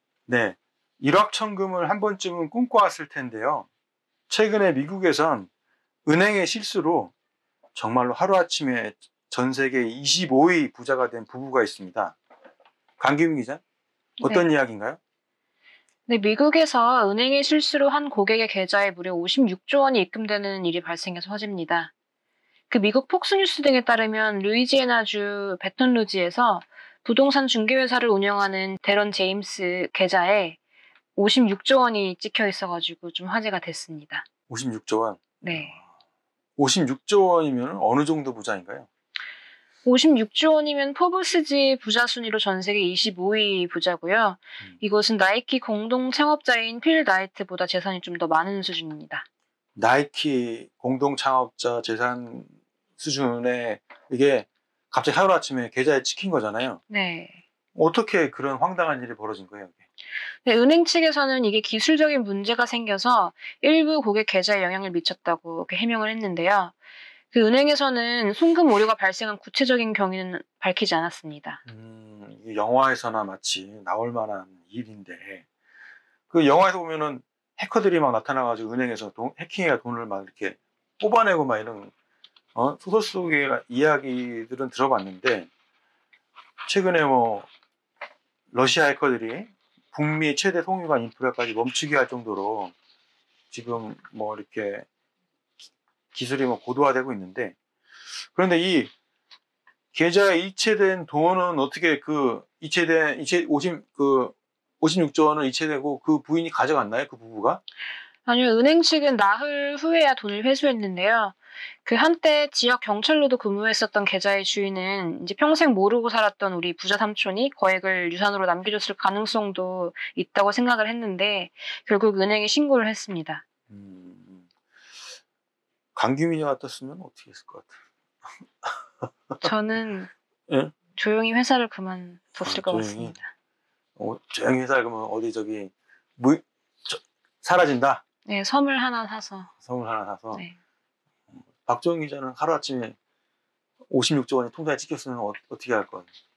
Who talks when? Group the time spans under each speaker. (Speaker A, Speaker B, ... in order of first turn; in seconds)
Speaker A: 0.3-3.7, 4.3-5.5, 6.0-7.1, 7.7-12.2, 13.0-13.6, 14.2-15.0, 34.5-35.8, 36.6-38.9, 49.8-56.8, 57.7-59.8, 71.7-75.4, 76.3-81.9, 82.5-85.5, 86.6-87.5, 88.5-92.7, 93.5-94.8, 96.1-97.5, 98.3-98.9, 99.9-107.6, 123.7-124.5, 126.0-127.8, 128.6-129.4, 130.5-130.7, 132.4-133.1, 134.0-138.0, 139.6-140.4, 141.3-142.9, 143.9-146.1
Speaker B: 14.2-14.5, 16.1-21.9, 22.7-30.6, 31.1-34.2, 35.4-35.8, 39.8-49.2, 56.9-57.4, 60.4-66.7, 67.3-71.6, 108.2-123.4, 129.4-130.1, 130.9-133.3, 138.2-139.5